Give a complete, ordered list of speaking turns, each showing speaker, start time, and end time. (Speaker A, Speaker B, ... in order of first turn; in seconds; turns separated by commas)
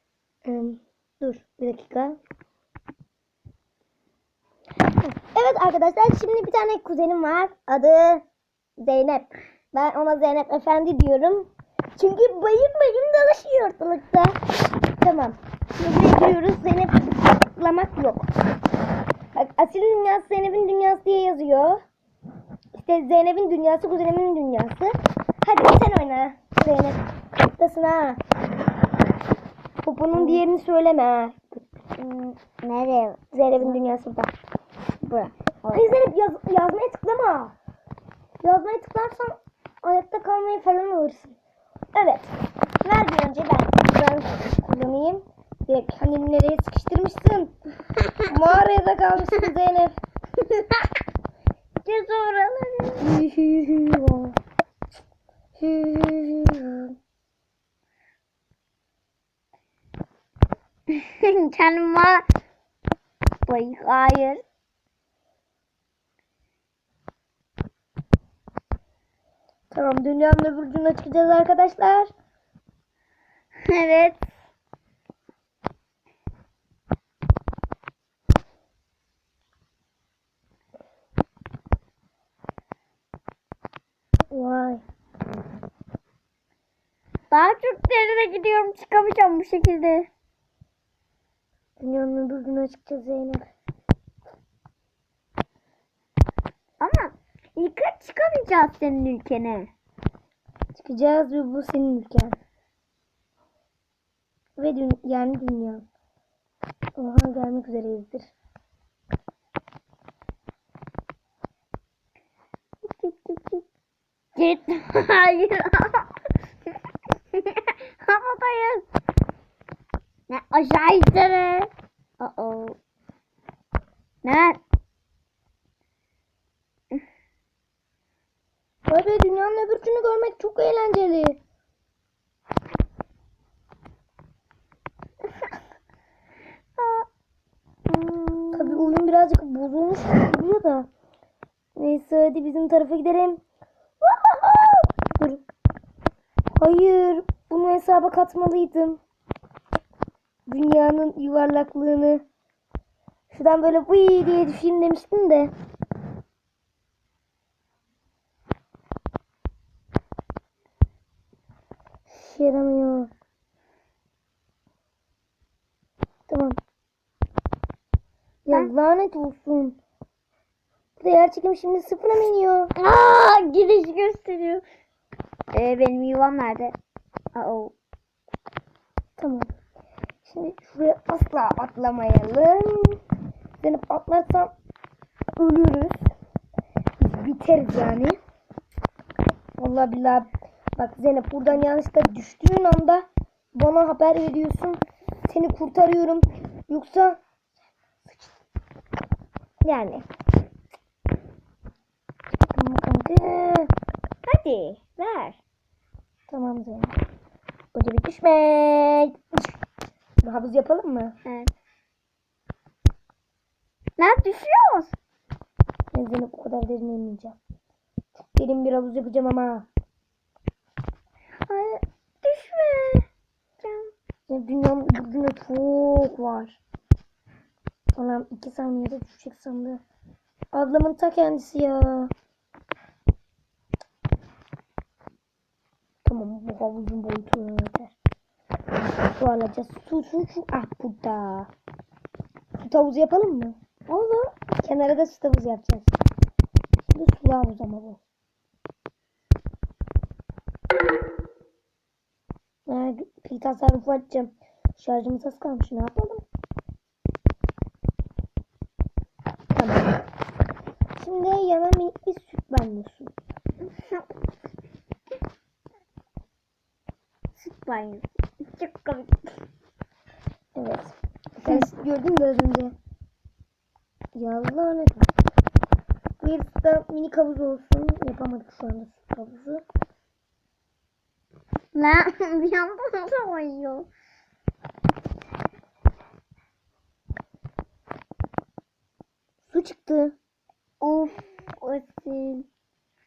Speaker A: 0.4-2.2, Speaker A: 5.2-8.2, Speaker A: 8.8-14.4, Speaker A: 15.0-18.3, Speaker A: 19.3-21.8, Speaker A: 22.8-28.2, Speaker A: 29.8-31.6, Speaker B: 30.1-30.4, Speaker B: 32.0-33.8, Speaker A: 33.3-34.3, Speaker B: 35.0-36.0, Speaker A: 35.7-37.5, Speaker A: 38.4-41.4, Speaker A: 41.9-47.5, Speaker A: 48.3-49.9, Speaker B: 51.8-53.1, Speaker A: 53.0-54.4, Speaker A: 55.6-56.9, Speaker B: 60.9-62.3, Speaker B: 63.5-64.4, Speaker A: 69.7-72.1, Speaker B: 73.6-74.3, Speaker A: 84.3-84.8, Speaker B: 87.3-90.1, Speaker A: 91.8-93.5, Speaker B: 96.8-99.7, Speaker A: 100.7-102.3, Speaker A: 104.6-105.8, Speaker A: 107.0-108.3, Speaker B: 112.9-113.6, Speaker B: 114.3-116.1, Speaker B: 117.3-118.8, Speaker B: 120.3-122.8, Speaker B: 124.2-124.6, Speaker A: 128.9-131.4, Speaker B: 136.8-137.1, Speaker B: 137.9-139.0, Speaker A: 138.5-140.9, Speaker A: 141.8-143.4, Speaker A: 144.0-145.4, Speaker A: 146.6-149.0, Speaker A: 150.5-152.2, Speaker A: 153.3-155.5, Speaker A: 162.1-163.1, Speaker A: 166.3-166.6, Speaker A: 168.4-169.8, Speaker A: 171.0-172.7, Speaker B: 172.8-174.6, Speaker B: 175.5-176.8, Speaker B: 177.3-177.7, Speaker A: 179.2-179.5, Speaker A: 180.2-183.0, Speaker A: 183.6-184.5, Speaker A: 185.4-186.0, Speaker A: 187.0-188.2, Speaker A: 189.6-197.2, Speaker A: 199.6-200.0, Speaker A: 202.5-203.7, Speaker B: 204.2-205.4, Speaker A: 206.3-206.9, Speaker A: 207.7-209.5, Speaker A: 210.2-211.2, Speaker B: 211.2-211.5, Speaker B: 214.0-214.9, Speaker A: 215.9-217.3, Speaker A: 218.3-219.7, Speaker B: 221.5-223.1, Speaker B: 223.6-223.9, Speaker A: 224.3-226.6, Speaker A: 227.9-229.8, Speaker A: 230.5-232.1, Speaker A: 236.0-237.9, Speaker A: 239.2-241.5, Speaker A: 242.6-243.6, Speaker B: 243.9-244.3, Speaker A: 244.5-245.9, Speaker A: 246.9-248.0, Speaker A: 252.7-256.2, Speaker A: 259.5-260.0, Speaker A: 261.0-263.1, Speaker B: 263.7-264.1, Speaker B: 267.4-269.2, Speaker A: 270.6-272.7, Speaker A: 274.1-275.1, Speaker A: 276.2-279.6, Speaker B: 281.7-283.9, Speaker A: 289.5-290.1, Speaker B: 290.8-292.4